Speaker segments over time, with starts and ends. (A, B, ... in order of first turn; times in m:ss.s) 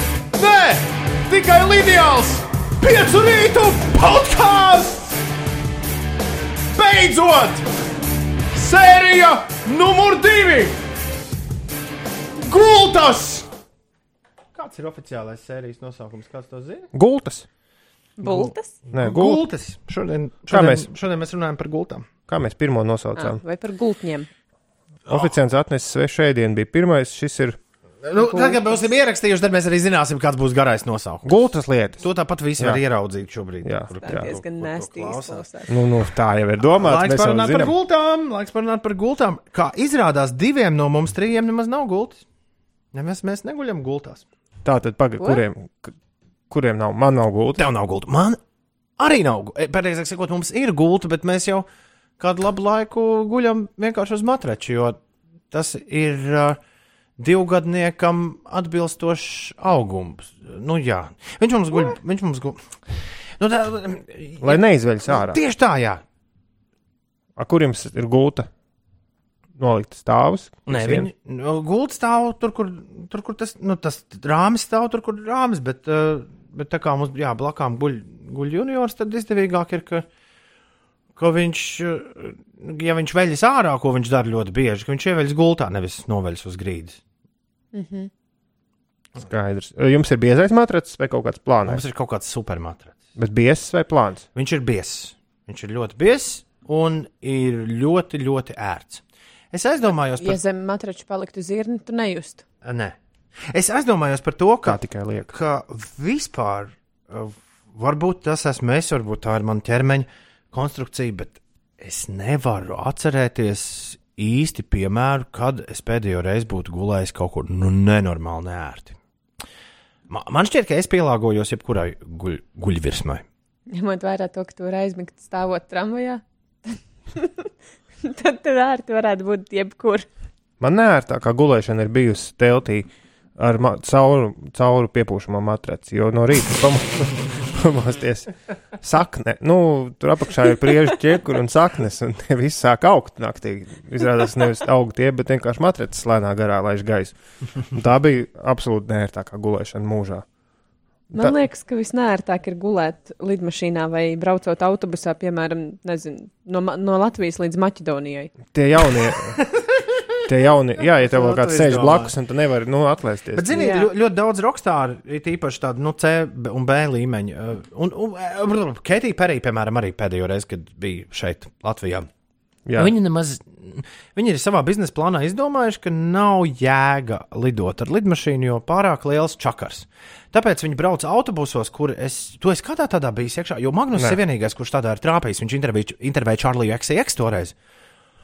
0:00.4-0:05.2 A
0:06.7-0:07.7 A
0:08.5-0:10.8 A
0:12.4-0:13.5 A
0:14.5-0:16.9 A
0:16.9-0:17.5 B
0:18.2-0:18.7 C
0:18.2-0:22.1 A
0:18.9-0:19.4 B
0:20.5-0:20.9 B
0:22.3-0:23.4 B
0:23.2-0:24.3 C
0:25.1-0:25.4 A
0:25.1-0:27.6 B
0:28.0-0:35.5 A
0:28.2-0:28.8 C
0:31.3-0:32.1 B
0:33.6-0:34.4 B
0:34.0-0:35.7 C
0:35.7-0:37.7 B
0:36.6-0:42.2 A
0:42.9-0:44.2 A
0:44.6-0:46.0 B
0:46.5-0:47.7 B
0:47.6-0:48.4 A
0:49.0-0:51.7 A
0:52.2-0:55.0 A
0:55.5-0:56.6 A
0:57.2-1:02.6 A
1:03.4-1:06.0 A
1:04.4-1:05.4 B
1:07.4-1:08.5 B
1:09.6-1:11.1 B
1:10.7-1:20.1 A
1:21.2-1:27.0 A
1:27.7-1:28.1 C
1:29.2-1:31.8 B
1:31.6-1:33.0 A
1:33.2-1:34.2 B
1:34.4-1:40.4 A
1:40.2-1:42.4 C
1:42.6-1:43.0 A
1:43.5-1:59.0 A
1:44.6-1:45.3 B
2:00.1-2:03.2 A
2:03.7-2:07.5 C
2:08.0-2:10.1 C
2:10.6-2:30.2 B
2:31.1-2:31.4 B
2:31.1-2:38.4 C
2:38.5-2:39.4 B
2:39.2-2:40.0 A
2:40.3-2:43.5 B
2:40.8-2:42.2 A
2:43.3-2:52.1 A
2:43.5-2:43.9 C
2:52.7-2:52.9 B
2:52.7-3:07.5 A